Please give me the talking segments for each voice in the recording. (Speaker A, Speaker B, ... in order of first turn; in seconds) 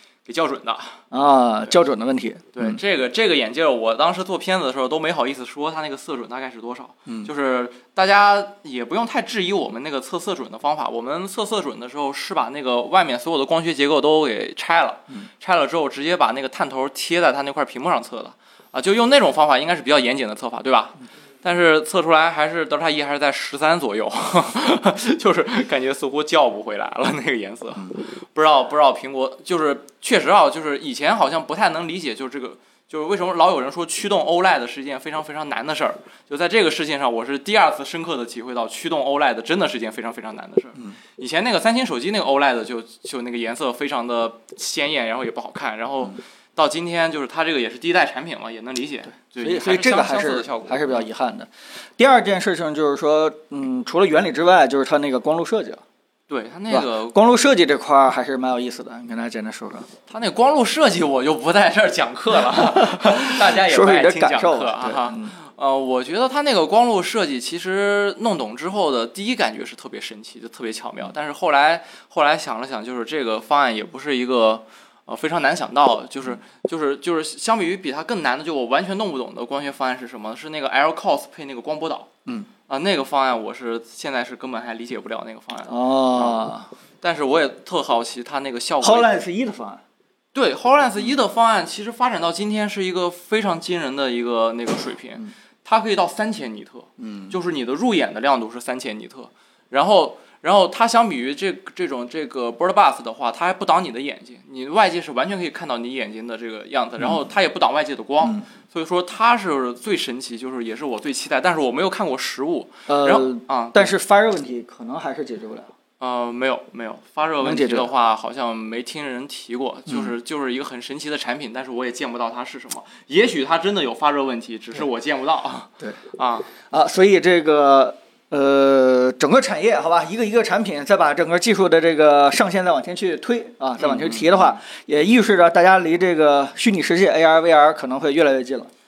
Speaker A: 0.2-1.0, 2.5-51.1, 56.3-57.2, 60.1-82.1, 82.7-86.5, 87.0-89.1, 90.3-113.9, 116.0-126.5, 133.8-134.6
Speaker B: 1.1-2.8, 49.4-55.8, 56.7-59.9, 62.5-65.4, 85.7-86.7, 88.8-89.8, 97.0-97.3, 112.9-115.7, 117.4-117.9, 126.6-138.7